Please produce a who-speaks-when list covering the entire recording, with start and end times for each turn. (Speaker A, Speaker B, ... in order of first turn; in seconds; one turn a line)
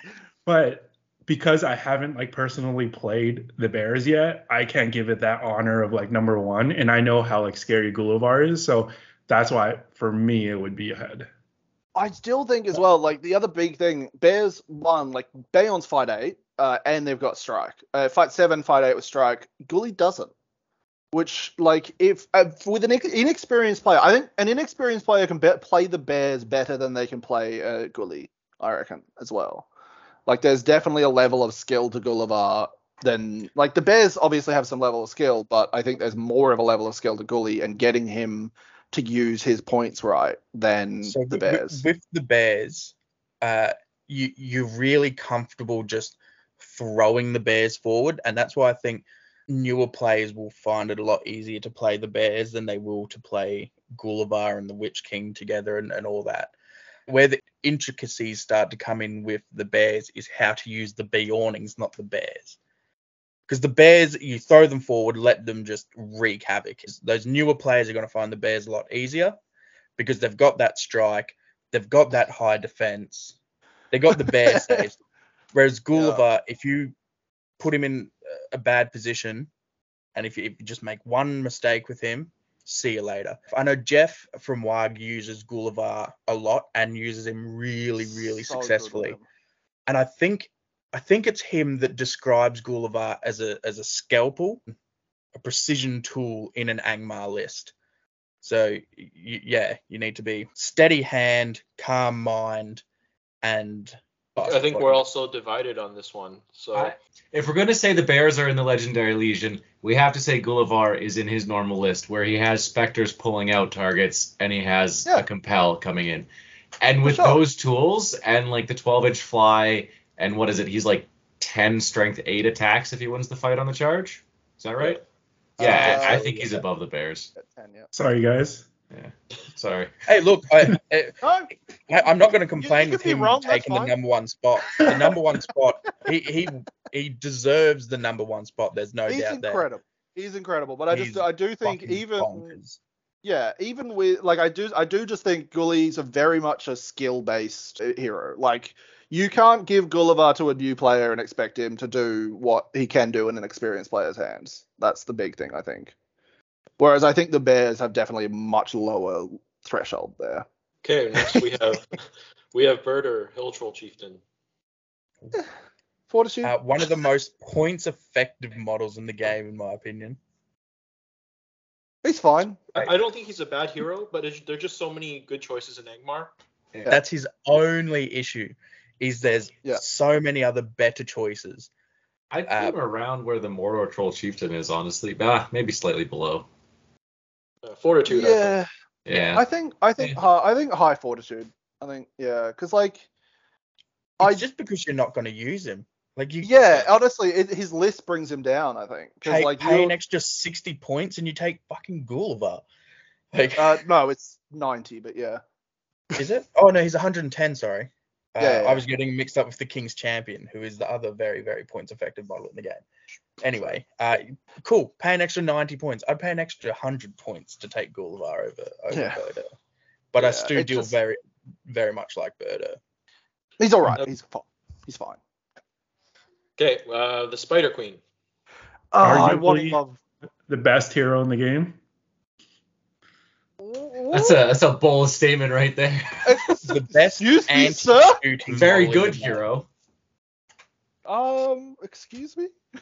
Speaker A: 0.5-11.3
Speaker B: 11.9-20.3
Speaker B: 21.1-29.6
Speaker B: 30.3-41.8
Speaker C: 41.0-56.5
Speaker C: 57.1-62.6
Speaker C: 63.5-69.4
Speaker C: 70.0-73.3
Speaker C: 73.9-75.0
Speaker B: 74.1-74.9
Speaker C: 75.5-76.9
Speaker B: 75.9-76.2
Speaker C: 77.6-79.5
Speaker C: 80.1-89.2
Speaker B: 88.1-89.2
Speaker C: 89.9-94.6
Speaker C: 95.3-97.7
Speaker C: 98.4-102.8
Speaker C: 103.4-105.0
Speaker D: 104.4-106.9
Speaker E: 106.7-116.3
Speaker E: 116.8-125.0
Speaker B: 117.0-117.4
Speaker B: 125.6-126.5
Speaker E: 125.6-127.3
Speaker C: 125.6-126.3
Speaker B: 127.3-127.9
Speaker A: 127.9-128.7
Speaker E: 128.9-129.9
Speaker C: 130.1-131.2
Speaker B: 131.2-131.5
Speaker C: 131.9-139.6
Speaker B: 132.6-133.9
Speaker B: 139.1-142.5
Speaker C: 140.9-142.8
Speaker B: 143.2-155.9
Speaker B: 156.8-160.4
Speaker D: 160.8-162.0
Speaker B: 161.1-161.4
Speaker D: 162.5-164.2
Speaker B: 166.1-166.5
Speaker C: 166.4-170.2
Speaker B: 172.0-172.6
Speaker D: 172.7-176.3
Speaker C: 176.9-181.7
Speaker E: 182.3-186.5
Speaker C: 182.5-182.8
Speaker D: 187.6-188.6
Speaker B: 188.1-193.1
Speaker E: 189.1-189.4
Speaker C: 194.2-196.9
Speaker B: 196.4-199.9
Speaker C: 199.2-202.6
Speaker C: 203.3-203.8
Speaker B: 203.6-205.4
Speaker C: 206.2-212.8
Speaker B: 208.4-208.8
Speaker C: 213.4-219.5
Speaker B: 218.9-219.2
Speaker C: 220.1-222.8
Speaker B: 220.2-220.9
Speaker B: 223.6-225.2
Speaker D: 226.6-228.0
Speaker B: 228.9-230.0
Speaker A: 229.0-229.8
Speaker A: 230.5-231.8
Speaker B: 233.6-234.4
Speaker E: 234.1-236.3
Speaker B: 236.2-238.2
Speaker C: 236.6-239.4
Speaker E: 238.5-239.7
Speaker B: 241.1-242.5